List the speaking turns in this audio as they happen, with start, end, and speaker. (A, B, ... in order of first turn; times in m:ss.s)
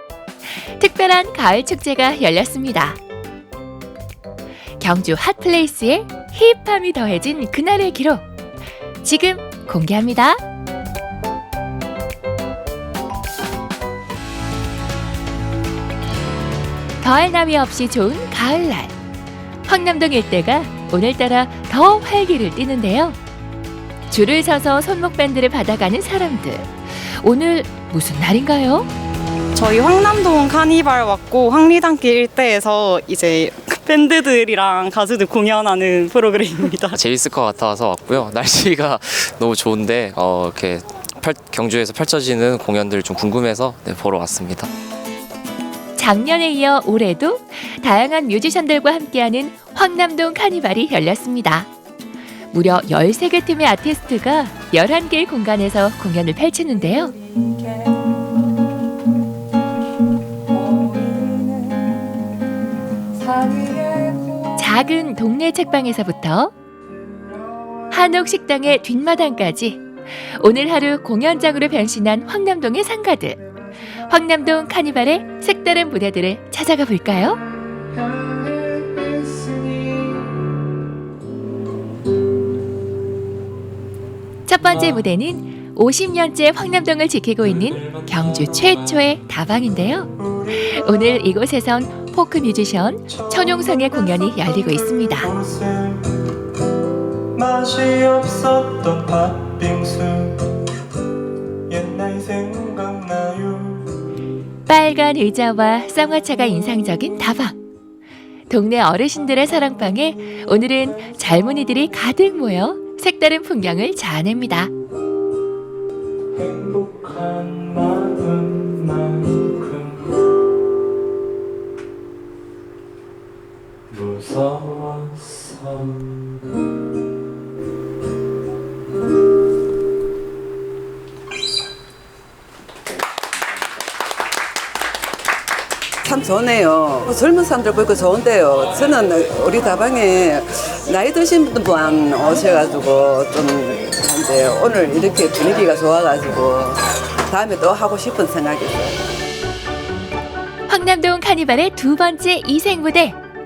0:00.8-0:03.0 A
0:04.8-0:08.2 A
0:09.0-0:10.4 A
0:17.0-0:18.9 A
0:19.7-0:23.2 A
0:24.1-0:28.9 A
0:29.5-0:36.9 B
0:36.9-0:44.7 C
0:46.0-0:51.7 A
0:52.5-0:57.2 A
1:04.6-1:06.5 A
1:07.9-1:13.4 A
1:14.1-1:17.4 A
1:24.5-1:35.3 A
1:27.6-1:28.7 D
1:30.2-1:30.9 D
1:33.1-1:36.2 D
1:37.3-1:40.5 D
1:41.7-1:43.9 D
1:44.7-1:47.6 A
1:48.5-1:54.7 A
1:56.3-2:00.2 D
2:03.9-2:06.3 D
2:16.0-2:29.0 E
2:30.7-2:33.2 A